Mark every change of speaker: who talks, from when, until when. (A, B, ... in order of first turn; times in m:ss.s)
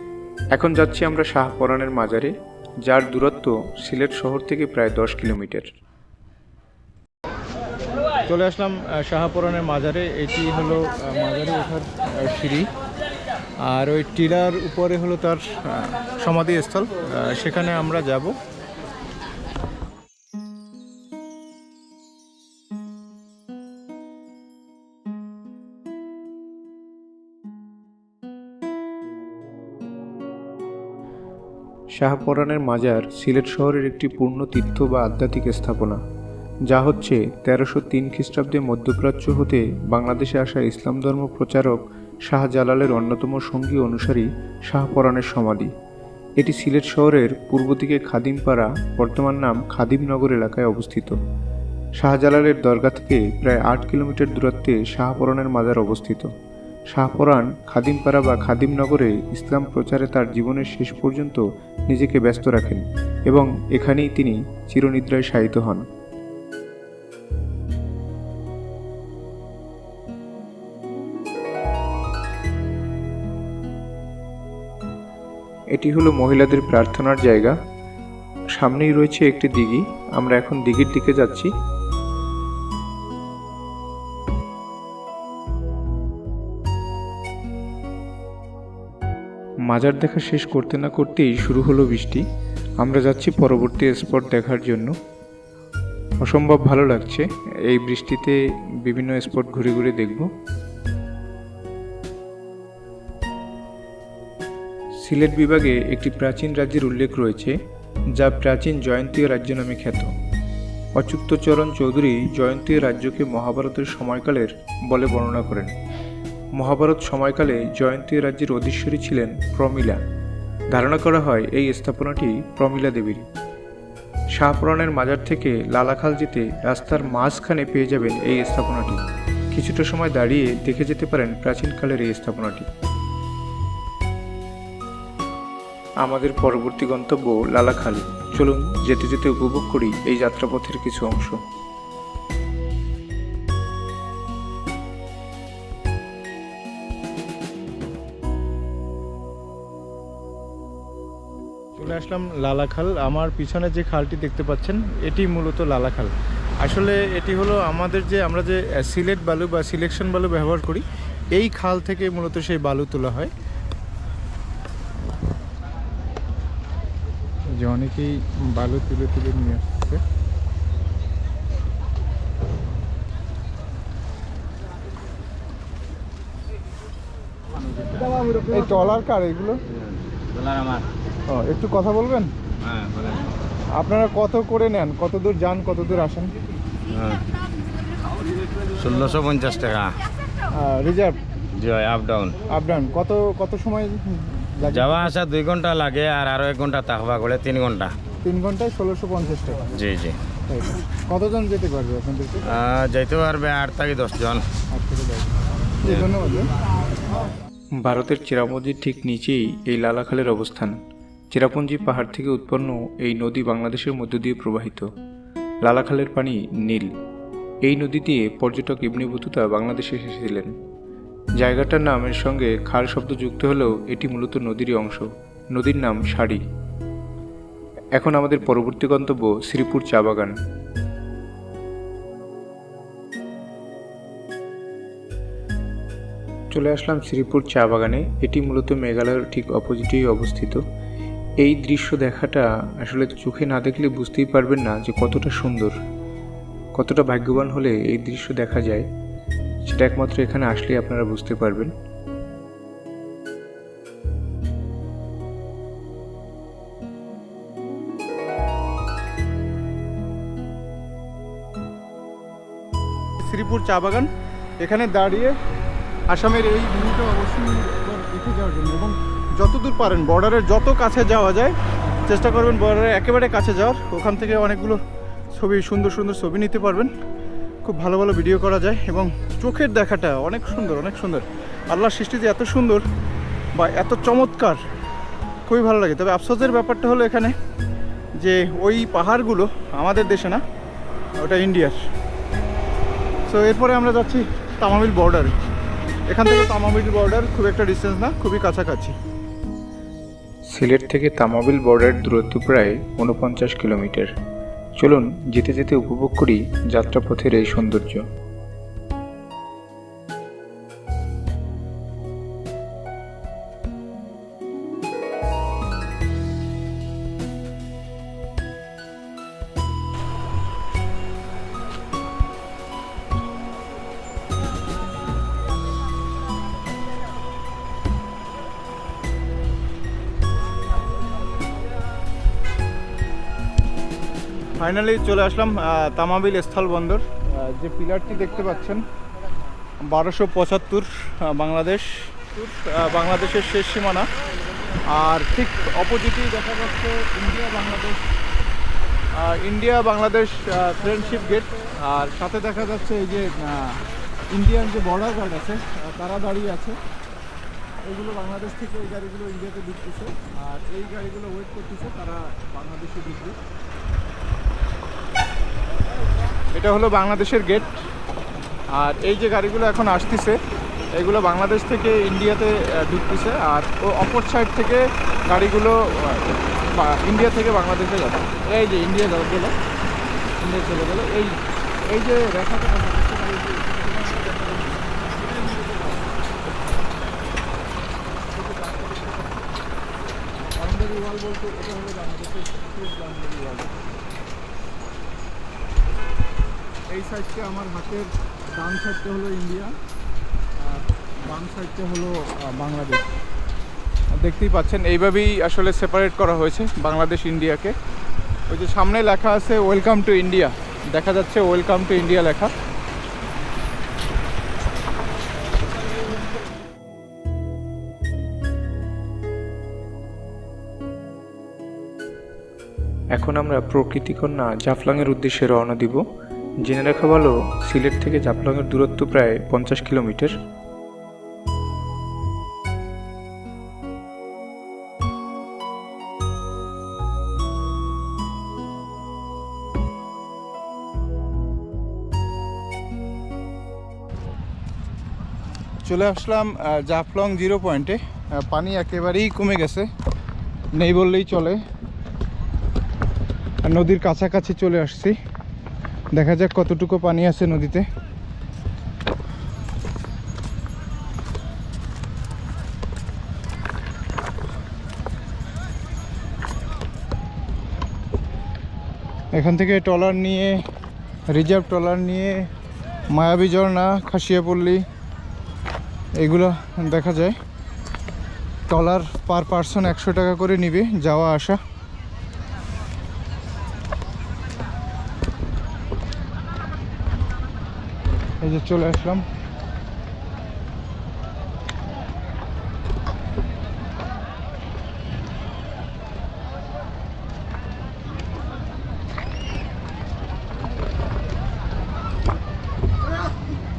0:00.5-0:05.7 A
0:08.3-0:12.7 B
0:13.7-0:18.4 B
0:32.0-0:36.0 A
0:36.7-0:45.7 A
0:46.4-0:51.2 A
0:52.0-0:56.3 A
0:56.9-1:05.8 A
1:15.7-1:17.6 A
1:18.5-1:21.5 A
1:29.7-1:32.2 A
1:32.8-1:35.0 A
1:36.2-1:40.3 A
1:45.0-1:47.6 A
1:48.2-1:50.1 A
1:51.0-1:55.7 A
1:56.6-2:00.0 A
2:00.7-2:03.3 A
2:04.4-2:12.7 A
2:16.0-2:21.4 A
2:31.8-2:43.3 B
2:47.6-2:50.0 B
2:58.5-2:59.6 B
2:59.7-3:00.8 C
3:01.3-3:02.3 B
3:02.6-3:03.2 C
3:03.8-3:06.3 B
3:06.9-3:07.2 C
3:08.8-3:10.0 C
3:10.5-3:11.2 B
3:11.6-3:12.4 C
3:12.5-3:15.2 B
3:14.7-3:17.9 C
3:18.2-3:19.7 B
3:19.7-3:20.2 C
3:20.5-3:22.5 B
3:22.5-3:24.4 C
3:24.7-3:25.3 B
3:25.8-3:26.5 B
3:27.8-3:30.8 A
3:31.3-3:34.9 A
3:35.6-3:36.9 A
3:37.6-3:40.5 A
3:41.4-3:46.4 A
3:48.0-3:50.4 A
3:56.5-4:00.6 A
4:01.4-4:05.8 A
4:06.8-4:08.9 A
4:09.6-4:11.7 A
4:23.2-4:24.1 B
4:24.6-4:25.4 B
4:26.1-4:31.6 B
4:32.1-4:34.8 B
4:35.4-4:36.9 B
4:37.6-4:42.8 B
4:43.6-4:44.6 B
4:45.5-4:47.4 B
4:48.2-4:50.4 B
4:51.2-4:51.8 B
4:53.3-4:55.3 B
4:56.1-4:59.0 B
5:00.5-5:04.1 A
5:04.8-5:08.1 A
5:34.6-5:38.8 B
5:39.8-5:44.1 B
5:44.9-5:48.0 B
5:49.2-5:53.7 B
5:54.3-5:56.8 B
5:57.8-6:03.4 B
6:06.5-6:07.9 B
6:08.7-6:10.4 B
6:11.0-6:19.6 B
6:20.4-6:21.4 B
6:21.9-6:24.8 B
6:28.3-6:29.4 B
6:30.5-6:33.9 B
6:36.9-6:39.7 B
6:40.6-6:43.2 B
6:44.2-6:47.8 B
6:48.5-6:52.5 B
7:03.1-7:06.0 A
7:06.6-7:10.4 A
7:25.8-7:29.9 B
7:30.8-7:31.6 B
7:33.6-7:35.2 B
7:36.1-7:37.9 B
7:49.3-7:50.6 B
7:51.3-7:52.4 B
7:53.1-7:54.8 B
7:56.2-7:57.4 B
7:58.7-8:01.6 B
8:08.4-8:09.2 B